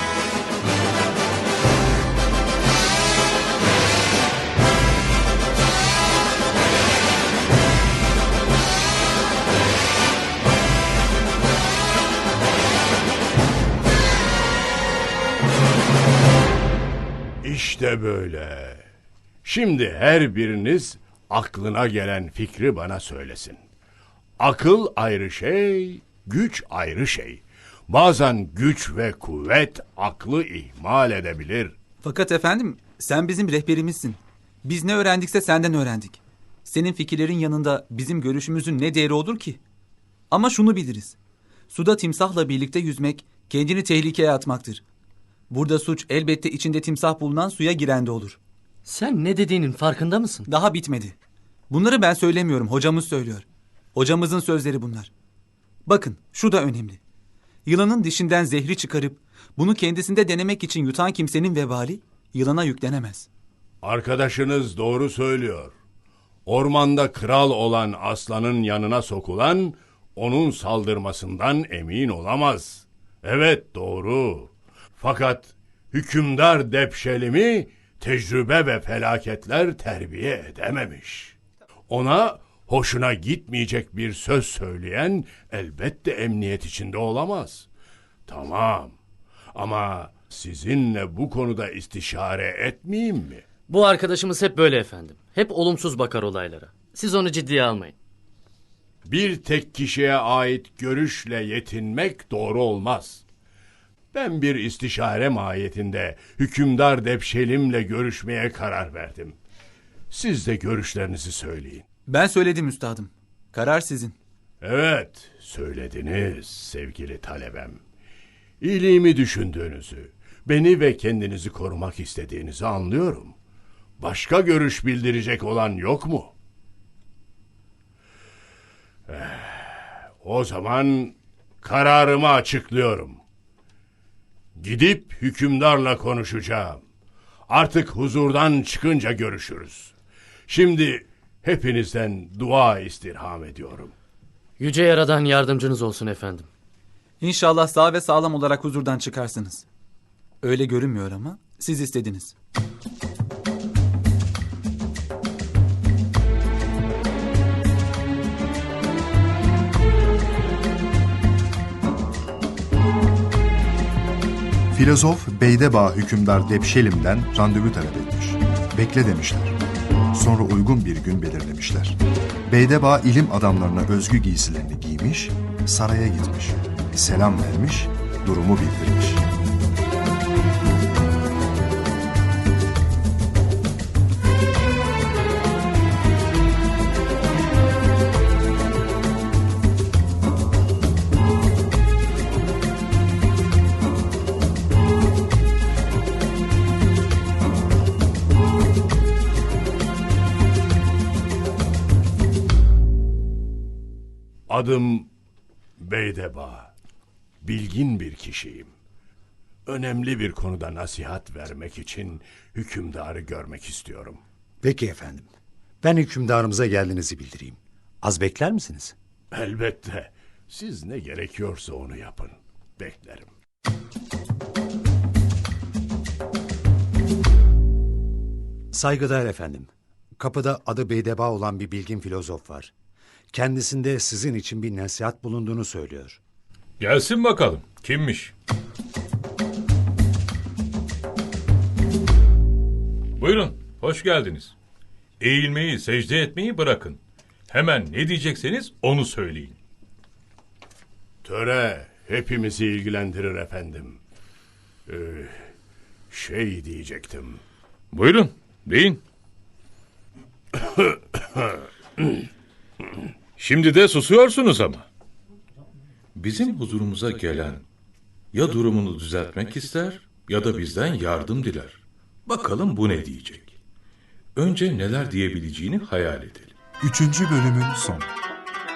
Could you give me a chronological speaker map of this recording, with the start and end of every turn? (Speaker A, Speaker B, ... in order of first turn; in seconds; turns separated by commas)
Speaker A: 17.4-18.8, Speaker A: 19.4-23.6, Speaker A: 24.4-31.7, Speaker B: 32.0-39.6, Speaker B: 40.3-41.1, Speaker B: 41.7-44.8, Speaker B: 45.5-48.4, Speaker C: 48.9-50.5, Speaker B: 50.5-51.1, Speaker B: 51.7-55.1, Speaker B: 55.9-57.0, Speaker B: 57.6-63.2, Speaker A: 63.8-65.7, Speaker A: 66.5-81.3, Speaker A: 81.9-87.7, Speaker A: 88.3-89.0, Speaker A: 89.5-93.4, Speaker C: 93.7-97.9, Speaker A: 99.0-103.2, Speaker A: 104.1-109.4, Speaker A: 110.1-111.8, Speaker B: 112.1-114.1, Speaker A: 114.6-117.8, Speaker A: 118.6-123.3, Speaker A: 124.0-126.3, Speaker A: 129.1-133.2, Speaker A: 134.6-136.8, Speaker A: 137.5-139.9, Speaker A: 140.5-143.9, Speaker C: 144.6-146.5, Speaker B: 147.2-149.6, Speaker B: 150.4-152.3, Speaker D: 164.7-169.5, Speaker D: 170.1-171.9, Speaker D: 172.5-179.2, Speaker A: 204.5-205.1, Speaker A: 205.8-206.7, Speaker A: 207.4-208.7, Speaker A: 209.7-214.2, Speaker E: 214.6-215.3, Speaker E: 215.8-218.9, Speaker A: 219.3-223.3, Speaker E: 228.7-232.7, Speaker E: 233.3-236.2, Speaker F: 236.8-238.3, Speaker F: 243.2-244.5, Speaker F: 245.2-247.0, Speaker F: 247.5-249.6, Speaker A: 251.2-254.0, Speaker A: 254.9-255.5, Speaker A: 256.1-257.4, Speaker F: 257.9-259.0, Speaker F: 263.4-264.8, Speaker F: 266.1-267.6, Speaker F: 268.3-273.5, Speaker F: 274.3-276.5, Speaker D: 276.8-278.0